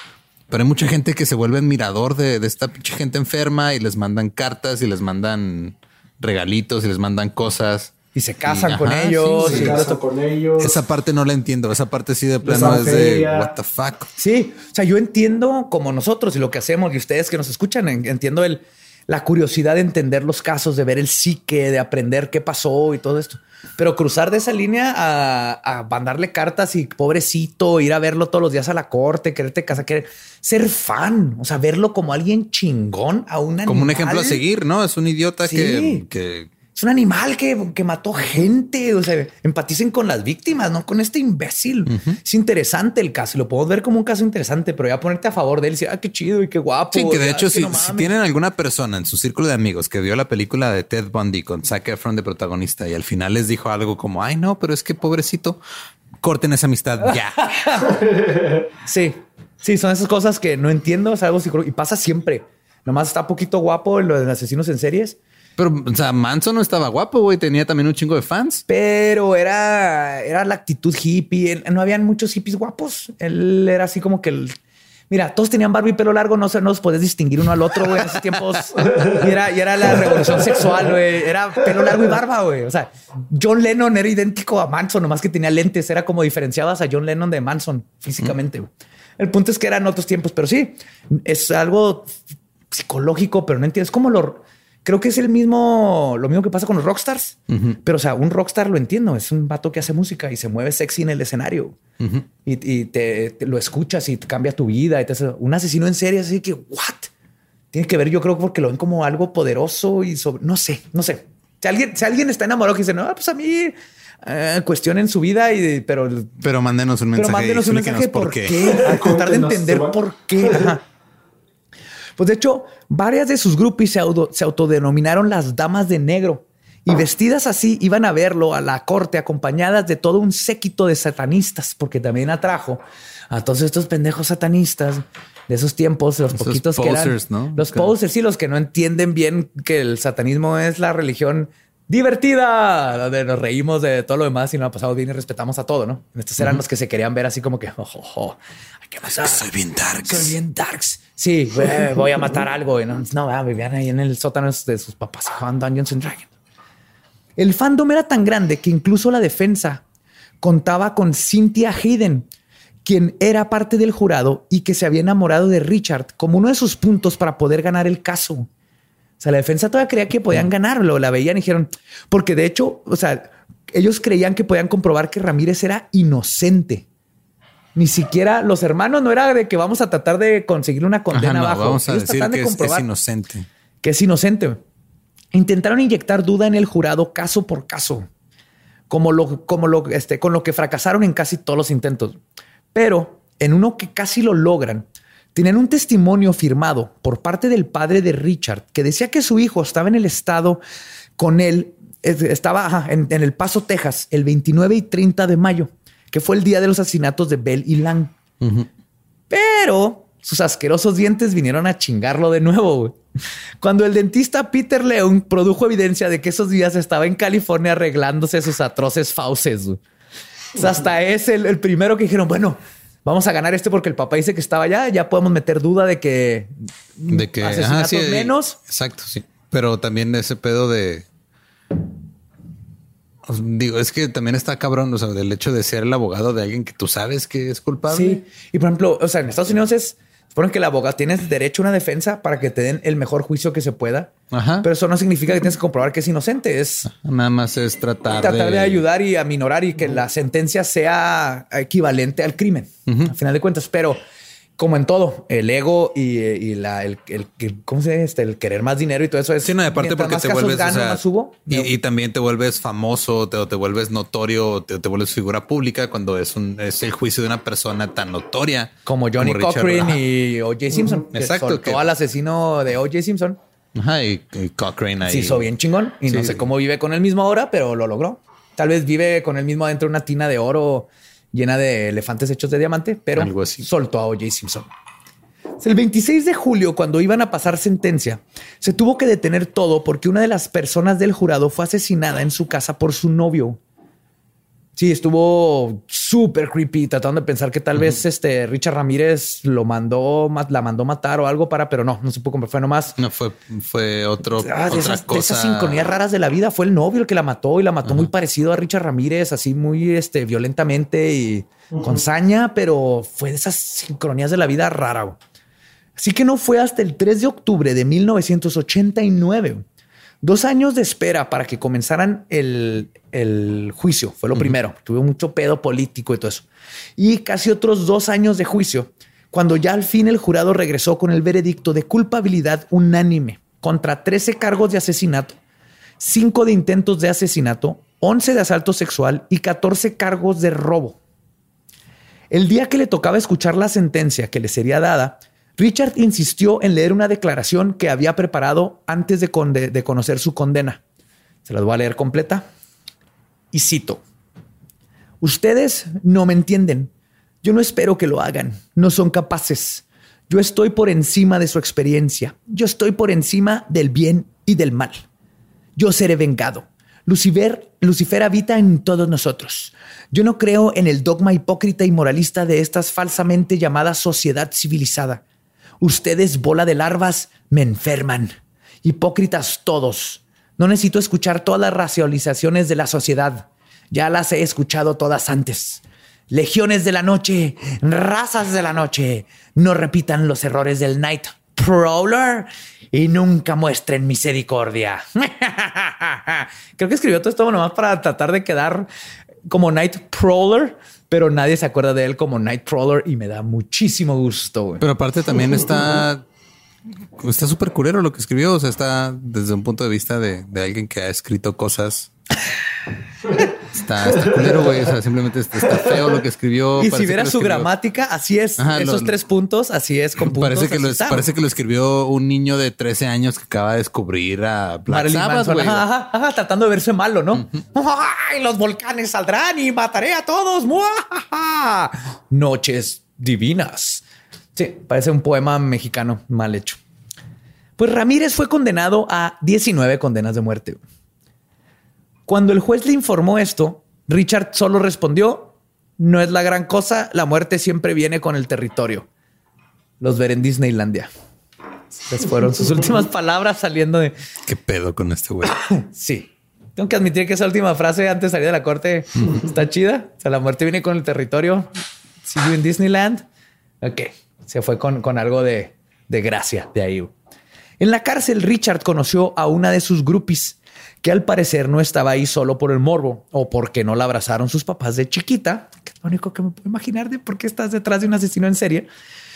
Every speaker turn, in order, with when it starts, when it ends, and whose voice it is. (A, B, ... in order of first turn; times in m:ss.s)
0:00.5-0:09.8 A
0:08.1-0:10.0 B
0:09.4-0:10.8 C
0:10.6-0:14.1 A
0:12.4-0:13.5 C
0:14.2-0:34.4 B
0:33.7-0:36.5 A
0:35.4-0:36.1 B
0:36.7-0:48.1 B
0:41.9-0:42.2 A
0:46.9-0:55.6 A
0:56.2-0:57.7 A
0:57.1-0:58.0 B
0:58.8-1:05.2 B
1:05.6-1:08.6 A
1:08.7-1:14.6 B
1:15.1-1:32.2 B
1:32.7-1:41.8 B
1:42.4-1:47.1 B
1:47.7-1:56.4 B
1:56.4-1:58.8 A
1:57.2-2:00.8 B
1:58.8-2:00.0 C
2:02.2-2:36.3 B
2:16.3-2:17.9 A
2:29.1-2:30.4 A
2:37.4-2:39.8 B
2:40.4-2:42.3 B
2:42.8-2:48.5 B
2:49.2-2:56.9 B
2:57.8-3:02.9 B
3:01.1-3:03.5 A
3:03.8-3:04.6 B
3:05.3-3:08.1 B
3:08.9-3:12.2 B
3:12.7-3:20.6 B
3:21.2-3:28.1 B
3:28.4-3:28.7 A
3:29.3-3:33.0 B
3:33.6-3:39.8 B
3:40.5-3:48.6 B
3:47.1-3:51.1 A
3:53.2-3:58.2 A
3:57.9-4:06.9 B
4:04.3-4:04.7 A
4:06.9-4:08.8 A
4:08.1-4:14.0 B
4:12.9-4:13.1 A
4:14.6-4:21.7 B
4:19.4-4:30.0 A
4:28.9-4:33.4 B
4:31.1-4:31.9 A
4:33.8-4:35.5 A
4:35.1-4:44.7 B
4:36.1-4:36.5 A
4:43.2-4:43.7 A
4:45.6-4:53.6 B
4:54.8-5:03.0 B
5:03.0-5:05.9 A
5:04.4-5:15.2 B
5:16.0-5:19.6 B
5:20.2-5:26.5 B
5:27.0-5:35.4 B
5:36.0-5:41.0 B
5:42.3-5:50.8 B
5:51.4-5:52.5 B
5:53.5-5:54.0 B
5:55.2-5:56.9 B
5:57.4-6:05.0 B
6:05.8-6:15.2 B
6:15.8-6:38.9 B
6:39.5-6:44.8 B
6:44.8-6:46.3 A
6:47.2-6:52.1 A
6:53.7-6:57.7 A
6:56.8-7:01.3 B
6:58.6-6:59.2 A
7:00.2-7:05.8 A
7:04.9-7:14.0 B
7:14.6-7:16.8 B
7:17.8-7:20.8 B
7:22.3-7:29.1 B
7:30.0-7:31.1 B
7:32.0-7:34.2 B
7:34.5-7:35.6 A
7:35.5-7:41.7 B
7:42.3-7:43.2 B
7:43.8-7:47.1 B
7:47.8-7:58.9 B